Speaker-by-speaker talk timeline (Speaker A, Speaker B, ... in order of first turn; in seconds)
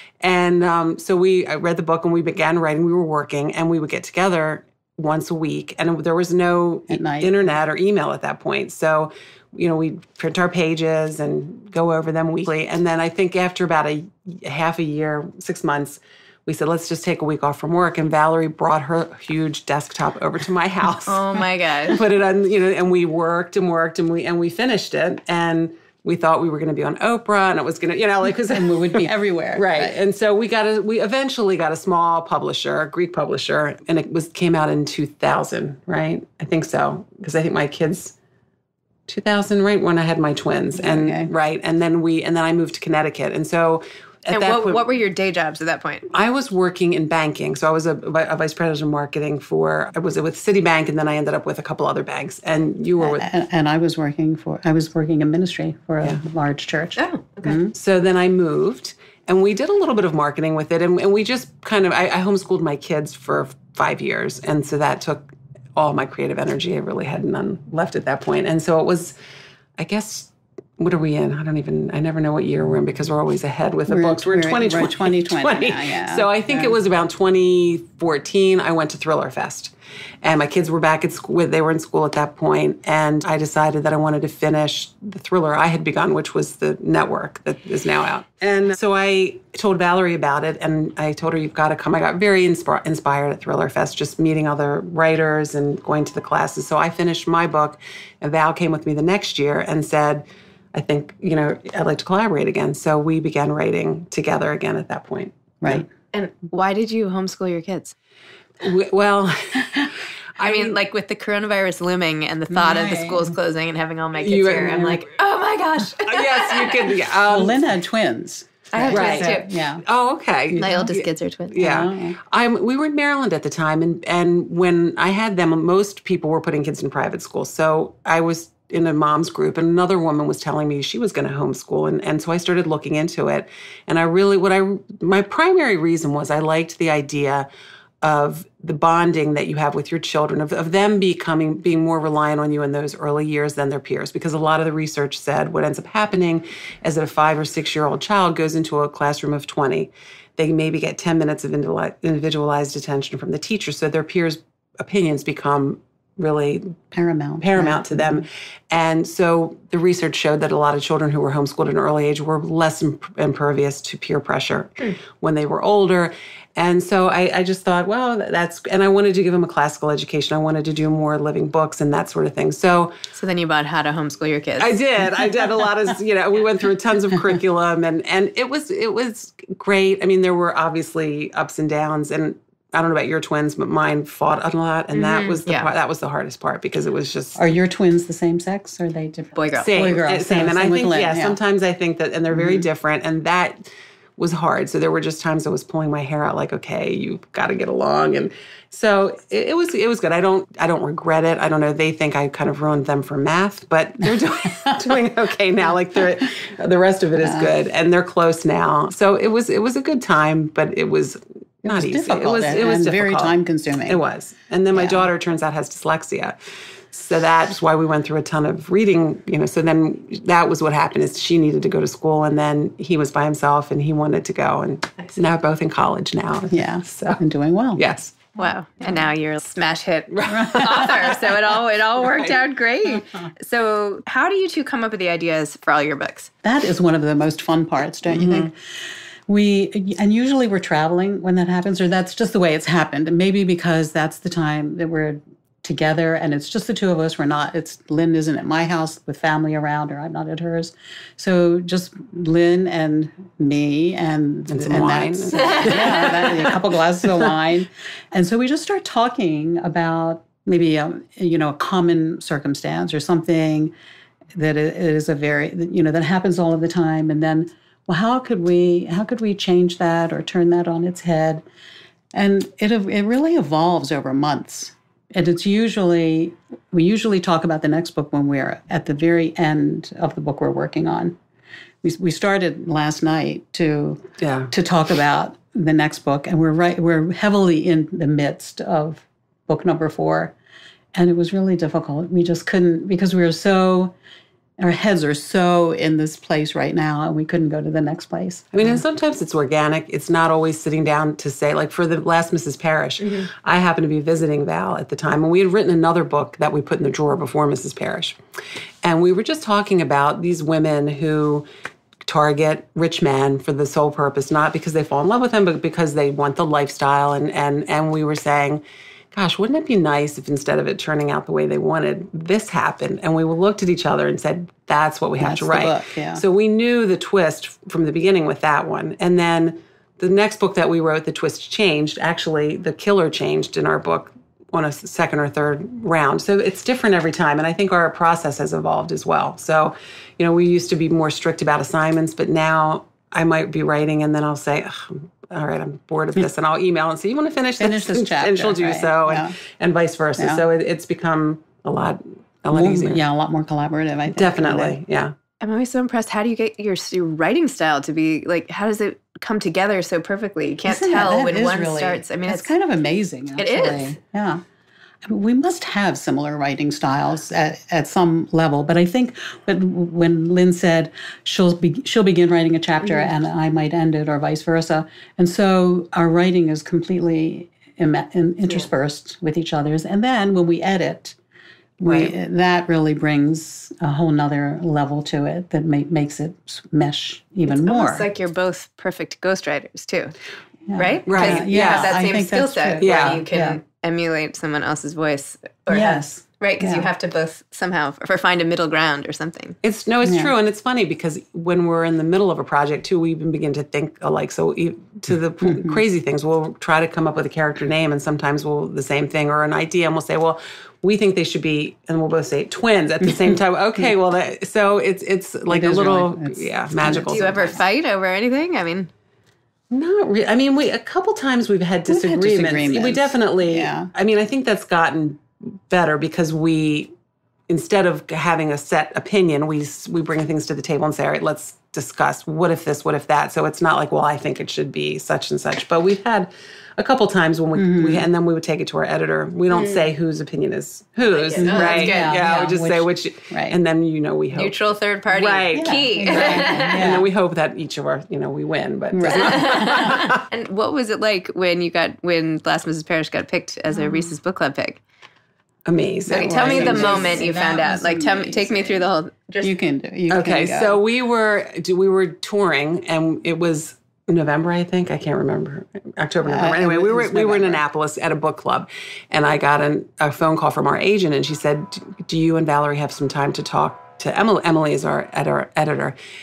Speaker A: 0.2-38.1, 39.1-44.8, 46.1-53.2, 57.7-69.2, 69.8-105.8, 108.6-110.8, 114.2-115.1, 116.0-117.7, 118.9-137.5, 138.0-156.8, 157.4-173.0, 174.6-187.4, 189.7-216.4, 216.9-227.2, 227.8-228.2, 230.1-232.4, 238.1-238.5, 254.5-256.6, 284.2-284.5, 298.5-308.2, 308.8-311.4, 312.0-353.0, 354.1-355.1, 381.8-382.1, 391.1-391.9, 392.8-393.2, 399.6-417.6, 419.7-426.9, 427.5-444.6, 445.1-450.2, 455.6-457.2, 460.1-476.0
Speaker B: 6.9-7.3, 28.4-29.9, 40.8-41.3, 53.0-57.7, 73.9-76.7, 112.5-113.3, 117.3-119.8, 120.5-120.9, 121.6-122.2, 156.9-158.2, 187.3-191.4, 192.3-192.7, 207.2-207.5, 211.6-214.0, 214.7-215.1, 226.5-227.8, 236.4-238.5, 239.3-263.7, 264.3-271.4, 272.1-281.2, 281.8-290.3, 290.9-293.9, 294.6-298.8, 325.2-326.2, 347.6-349.3, 350.2-350.4, 352.5-354.8, 360.6-364.4, 365.0-381.2, 381.8-388.1, 390.7-393.6, 395.7-396.9, 400.0-400.3, 405.4-405.8, 415.5-417.6, 421.9-423.9, 437.5-438.1, 441.4-443.6, 445.5-447.1, 448.9-450.1, 456.1-458.8, 459.4-460.8, 466.2-467.6
Speaker C: 21.1-22.0, 44.3-46.1, 57.0-57.6, 106.1-107.9, 110.4-116.9, 118.7-119.5, 120.6-121.8, 173.1-174.8, 184.9-185.7, 189.3-189.8, 228.3-236.3, 255.3-255.8, 355.4-362.5, 363.4-364.0, 387.4-390.1, 390.8-399.6, 416.9-418.9, 439.5-439.9, 441.0-442.3, 444.3-447.0, 449.1-454.8, 456.1-459.5